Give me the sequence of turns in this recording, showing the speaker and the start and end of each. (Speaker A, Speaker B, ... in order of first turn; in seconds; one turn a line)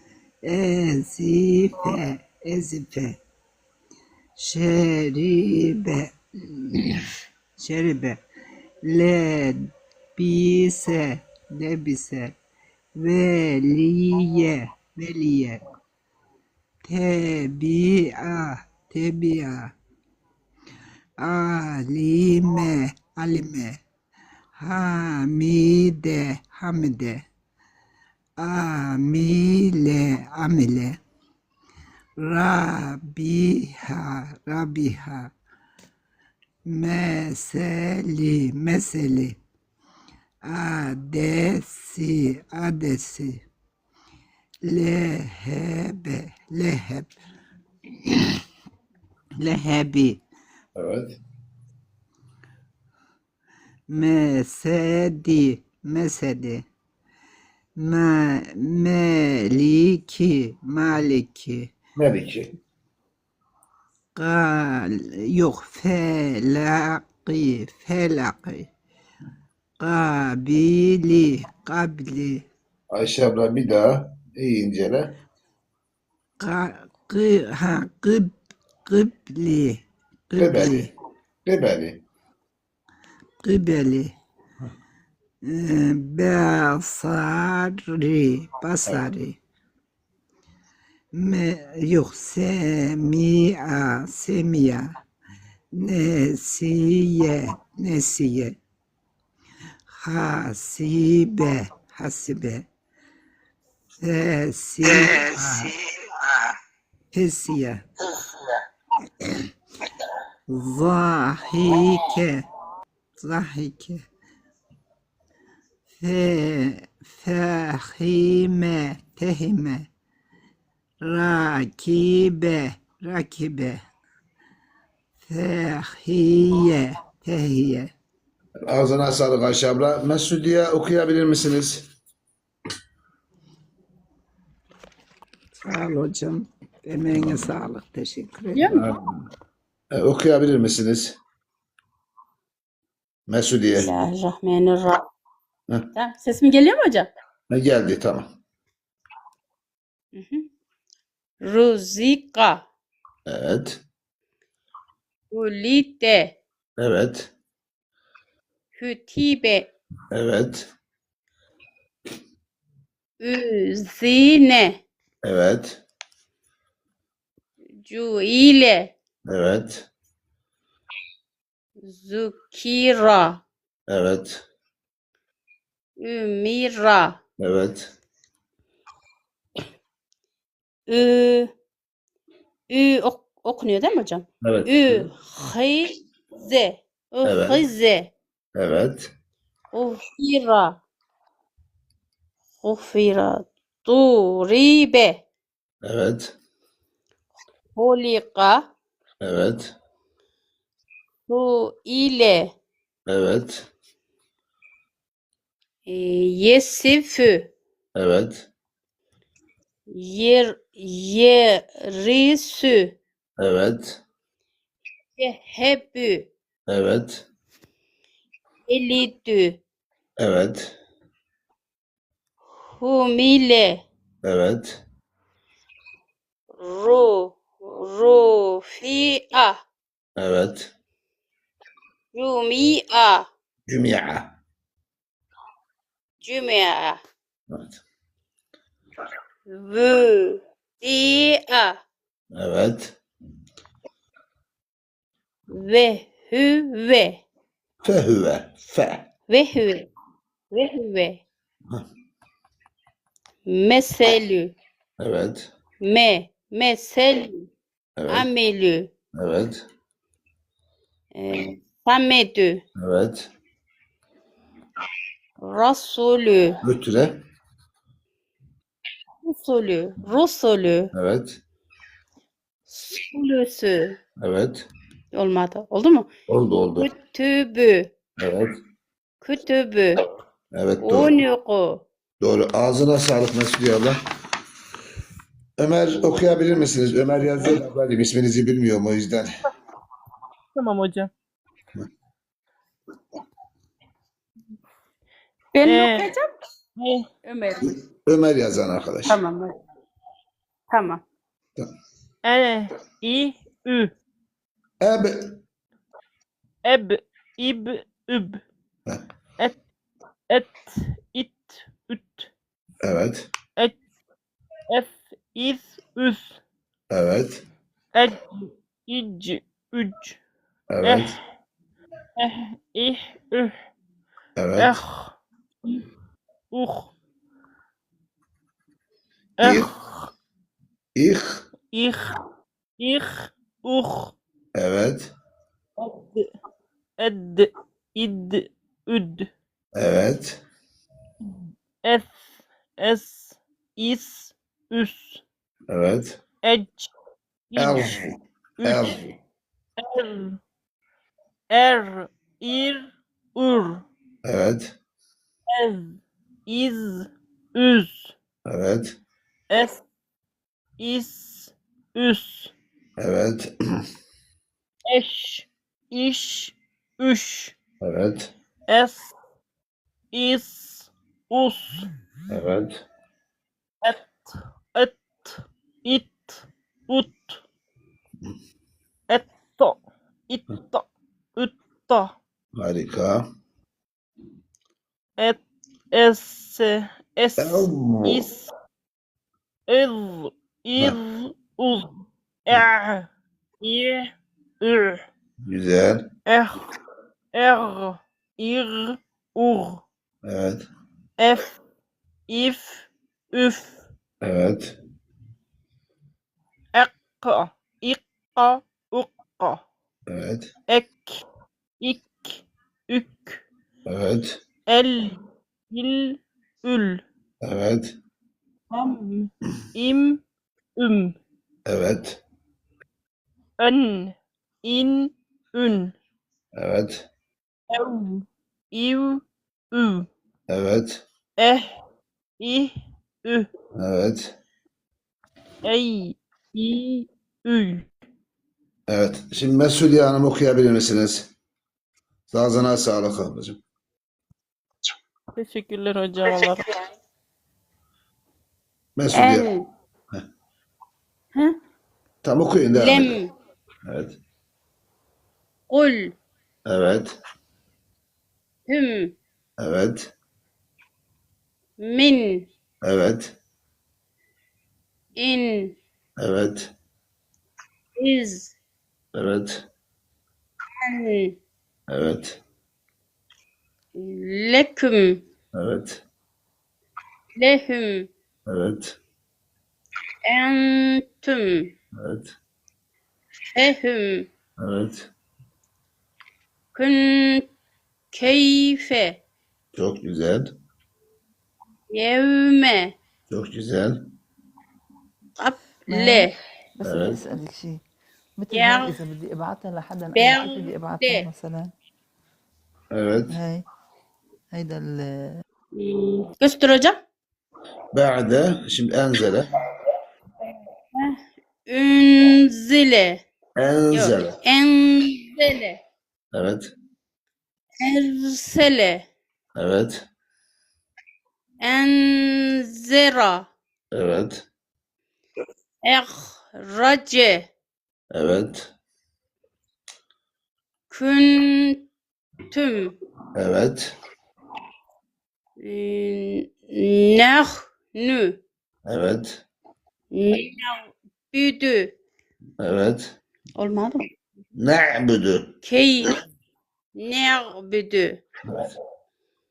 Speaker A: 0.4-3.2
Speaker A: 4.4-6.9
Speaker A: 7.6-8.2
Speaker A: 8.8-12.3
Speaker A: 13.0-15.6
Speaker A: 16.8-19.7
Speaker A: 21.2-23.8
Speaker A: 24.6-27.3
Speaker A: 28.4-31.0
Speaker A: 32.2-35.3
Speaker A: 36.7-39.4
Speaker A: 40.5-43.4
Speaker A: 44.7-47.1
Speaker A: 49.4-50.2
Speaker B: 50.8-51.2
Speaker A: 53.9-56.6
Speaker A: 57.8-61.7
Speaker B: 62.0-62.5
Speaker A: 64.1-68.7
Speaker A: 69.8-72.5
Speaker B: 72.9-75.1
Speaker A: 76.4-80.9
Speaker B: 80.4-80.9
Speaker B: 81.5-82.0
Speaker A: 83.4-84.2
Speaker A: 85.4-89.4
Speaker A: 91.1-94.9
Speaker A: 95.7-98.6
Speaker A: 99.9-102.7
Speaker A: 104.0-105.7
Speaker A: 107.1-107.8
Speaker A: 110.5-112.5
Speaker A: 113.2-114.0
Speaker A: 116.0-119.9
Speaker A: 121.0-123.8
Speaker A: 125.2-127.9
Speaker B: 128.7-131.8
Speaker A: 135.5-138.9
Speaker B: 137.1-137.5
Speaker B: 138.7-139.3
Speaker B: 139.9-141.2
Speaker B: 143.3-143.9
Speaker C: 143.8-145.1
Speaker C: 145.9-147.1
Speaker B: 147.5-148.3
Speaker C: 150.1-150.5
Speaker C: 151.4-152.6
Speaker B: 153.3-153.8
Speaker C: 155.3-156.3
Speaker B: 156.8-157.3
Speaker C: 158.8-159.7
Speaker B: 160.1-160.7
Speaker C: 163.2-164.8
Speaker B: 165.2-165.8
Speaker C: 167.8-168.9
Speaker B: 169.3-169.9
Speaker C: 171.8-173.4
Speaker B: 173.9-174.4
Speaker C: 176.0-177.2
Speaker B: 177.4-177.9
Speaker C: 180.9-181.5
Speaker C: 182.7-188.1
Speaker B: 184.4-185.1
Speaker B: 187.2-187.6
Speaker B: 188.6-189.1
Speaker C: 189.7-190.8
Speaker C: 192.6-195.2
Speaker B: 195.8-196.3
Speaker C: 197.8-198.7
Speaker B: 199.2-199.7
Speaker C: 201.3-202.5
Speaker B: 203.1-203.7
Speaker C: 205.9-207.5
Speaker B: 207.9-208.4
Speaker C: 209.9-212.9
Speaker B: 213.4-214.0
Speaker C: 215.2-216.3
Speaker B: 216.7-217.2
Speaker C: 218.7-219.6
Speaker B: 220.2-220.7
Speaker C: 222.8-223.8
Speaker B: 224.2-224.8
Speaker C: 226.6-229.6
Speaker B: 230.2-230.7
Speaker C: 232.1-233.3
Speaker B: 233.7-234.3
Speaker C: 236.2-237.0
Speaker B: 237.5-237.8
Speaker C: 239.5-241.8
Speaker B: 242.3-242.9
Speaker C: 245.5-247.2
Speaker B: 247.8-249.0
Speaker C: 249.3-249.9
Speaker C: 250.5-251.2
Speaker C: 253.4-254.5
Speaker B: 255.0-255.5
Speaker C: 255.8-257.5
Speaker B: 258.0-258.3
Speaker C: 258.1-258.9
Speaker B: 259.1-259.6
Speaker C: 261.1-262.6
Speaker B: 262.8-263.3
Speaker C: 265.4-266.6
Speaker B: 266.6-267.2
Speaker C: 269.2-270.9
Speaker B: 270.9-271.4
Speaker C: 272.7-274.0
Speaker B: 274.2-274.6
Speaker C: 275.1-276.1
Speaker B: 276.3-276.9
Speaker C: 276.8-277.9
Speaker B: 278.2-278.6
Speaker C: 279.2-280.0
Speaker B: 280.5-281.2
Speaker C: 280.8-281.8
Speaker B: 282.2-284.0
Speaker B: 285.6-289.3
Speaker D: 290.5-291.1
Speaker C: 295.5-296.3
Speaker D: 295.6-296.1
Speaker D: 296.8-297.1
Speaker C: 297.2-297.8
Speaker B: 298.1-299.2
Speaker C: 299.1-299.5
Speaker C: 300.7-301.0
Speaker D: 302.2-303.9
Speaker B: 304.8-305.4
Speaker D: 306.6-308.4
Speaker D: 310.3-312.3
Speaker B: 312.8-313.3
Speaker D: 314.7-316.4
Speaker B: 316.9-317.4
Speaker D: 317.9-320.2
Speaker B: 320.7-321.2
Speaker D: 320.8-321.2
Speaker D: 322.2-323.5
Speaker B: 324.4-324.8
Speaker D: 324.6-325.1
Speaker D: 326.5-326.9
Speaker D: 329.4-330.1
Speaker B: 329.4-329.7
Speaker B: 330.9-331.4
Speaker D: 331.7-332.1
Speaker D: 332.8-334.1
Speaker B: 334.5-335.1
Speaker D: 335.8-336.3
Speaker D: 337.0-339.3
Speaker B: 339.7-340.4
Speaker D: 341.8-342.1
Speaker D: 342.8-345.2
Speaker B: 345.7-346.2
Speaker D: 346.4-346.9
Speaker D: 347.5-348.0
Speaker B: 347.6-349.1
Speaker D: 348.6-349.0
Speaker D: 349.8-350.4
Speaker D: 351.5-353.8
Speaker B: 354.2-354.8
Speaker D: 355.5-358.1
Speaker B: 358.4-359.0
Speaker D: 359.5-359.8
Speaker D: 360.8-362.5
Speaker B: 363.0-363.5
Speaker D: 364.9-367.5
Speaker B: 367.8-368.3
Speaker D: 368.7-369.1
Speaker D: 370.1-371.9
Speaker B: 372.3-372.8
Speaker D: 373.8-377.4
Speaker D: 379.1-382.1
Speaker B: 382.6-383.3
Speaker D: 385.9-388.5
Speaker B: 387.4-388.3
Speaker D: 389.7-393.1
Speaker D: 393.6-394.1
Speaker D: 394.6-395.0
Speaker B: 395.4-396.1
Speaker D: 396.2-396.6
Speaker D: 397.3-399.8
Speaker B: 400.2-400.6
Speaker D: 401.2-401.5
Speaker D: 402.3-403.8
Speaker B: 404.2-404.8
Speaker D: 406.7-409.6
Speaker B: 410.1-410.5
Speaker D: 410.7-411.2
Speaker D: 411.8-413.4
Speaker B: 413.9-414.4
Speaker D: 414.7-415.2
Speaker D: 415.7-417.0
Speaker B: 417.4-417.9
Speaker D: 418.7-420.2
Speaker D: 420.8-421.1
Speaker B: 421.6-422.2
Speaker D: 423.6-425.9
Speaker B: 426.5-427.1
Speaker D: 427.7-430.1
Speaker B: 430.5-431.0
Speaker D: 431.4-431.7
Speaker D: 432.4-432.7
Speaker B: 433.8-434.3
Speaker D: 435.6-437.9
Speaker B: 438.9-441.3
Speaker B: 442.3-443.6
Speaker D: 445.3-446.8
Speaker B: 449.0-449.5
Speaker C: 449.1-449.6
Speaker B: 452.2-453.2
Speaker C: 452.8-453.3
Speaker B: 453.8-454.2
Speaker C: 455.7-456.1
Speaker B: 456.7-457.1
Speaker C: 458.7-459.1
Speaker B: 459.6-460.1
Speaker C: 461.8-462.5
Speaker B: 462.8-463.3
Speaker C: 465.2-465.8
Speaker B: 466.2-466.7
Speaker C: 468.0-468.5
Speaker B: 469.1-469.6
Speaker C: 470.8-471.4
Speaker B: 471.9-472.4
Speaker C: 473.9-475.2
Speaker B: 475.5-476.0
Speaker C: 477.4-478.1
Speaker B: 478.5-479.0
Speaker C: 480.2-481.7
Speaker B: 481.9-482.3
Speaker C: 483.5-484.3
Speaker B: 484.6-485.1
Speaker C: 486.7-487.5
Speaker C: 488.1-489.2
Speaker B: 489.7-490.5
Speaker C: 491.9-492.9
Speaker B: 493.3-494.1
Speaker C: 495.4-496.3
Speaker E: 495.9-497.8
Speaker B: 496.8-497.2
Speaker E: 498.4-501.7
Speaker C: 498.5-499.0
Speaker C: 500.1-501.2
Speaker B: 502.9-503.4
Speaker E: 503.3-503.6
Speaker E: 504.5-505.4
Speaker C: 505.7-507.0
Speaker B: 507.9-509.5
Speaker C: 510.9-513.2
Speaker B: 513.6-514.4
Speaker C: 513.9-515.8
Speaker B: 516.3-516.7
Speaker C: 517.8-519.0
Speaker B: 519.5-520.0
Speaker C: 521.6-523.5
Speaker B: 523.9-524.4
Speaker C: 525.8-527.5
Speaker B: 528.1-528.7
Speaker C: 530.9-531.8
Speaker C: 532.5-533.0
Speaker B: 533.3-533.9
Speaker C: 535.6-538.4
Speaker B: 538.9-539.4
Speaker C: 540.1-541.9
Speaker B: 542.6-543.1
Speaker C: 543.6-544.0
Speaker B: 544.5-545.5
Speaker C: 545.6-546.2
Speaker C: 546.9-548.2